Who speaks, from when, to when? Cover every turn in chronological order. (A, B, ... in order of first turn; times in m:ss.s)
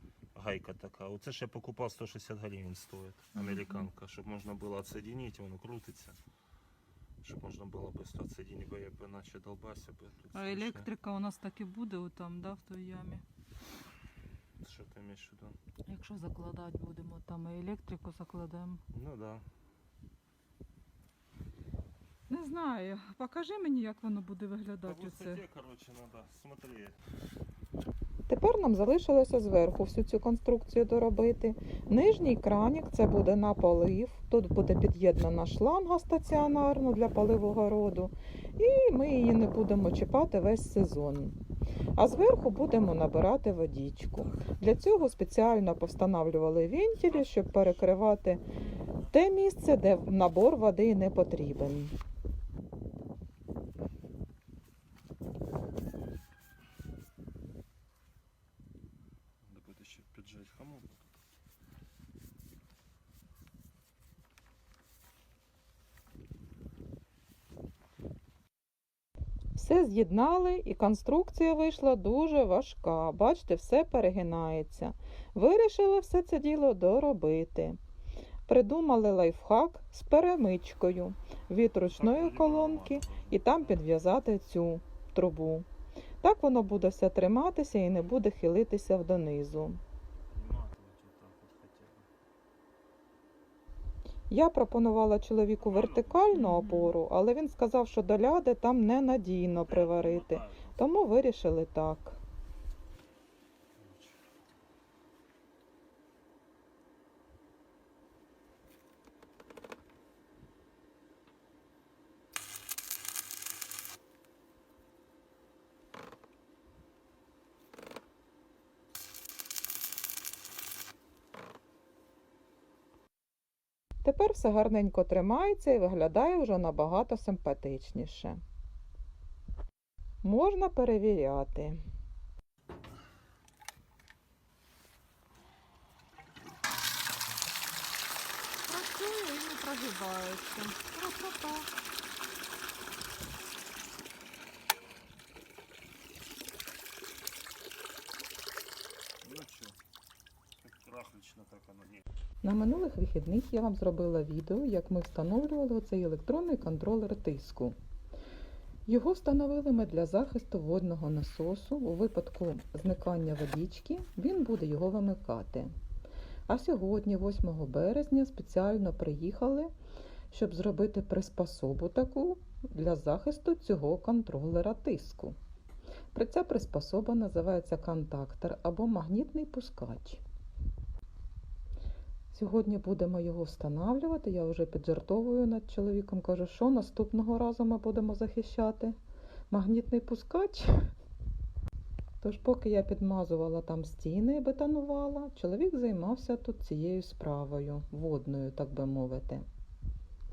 0:00.3-0:06.2 A
0:07.2-0:10.9 A
0:10.3-0:13.2 B
0:14.6-0:15.6 A
0:15.9-0:18.8 B
0:18.9-0:19.4 A
0:22.3-0:25.3 B
0:24.8-0:27.0 A
0:25.0-0:25.4 C
0:28.3-0:41.4 C
0:42.0-0:48.4 C
0:44.2-0:44.5 A
0:47.2-0:47.6 A
0:49.1-0:51.9 C
0:59.4-1:01.2 A
1:09.5-1:17.8 C
1:18.5-1:25.7 C
1:21.9-1:23.9 A
1:26.2-1:29.8 C
1:30.3-1:32.1 A
1:34.3-1:42.2 C
1:35.6-1:36.3 A
1:36.3-1:36.9 B
1:39.6-1:41.0 A
1:43.8-1:44.1 A
2:04.0-2:08.4 C
2:10.2-2:11.8 C
2:18.7-2:20.8 B
2:20.7-2:21.6 C
2:29.2-2:29.8 A
2:30.6-2:32.0 A
2:32.4-2:37.8 C
2:38.8-2:45.7 C
2:46.5-2:49.7 C
2:50.3-2:55.4 C
2:56.1-3:00.2 C
3:02.3-3:09.0 C
3:09.5-3:10.8 C
3:12.2-3:19.4 C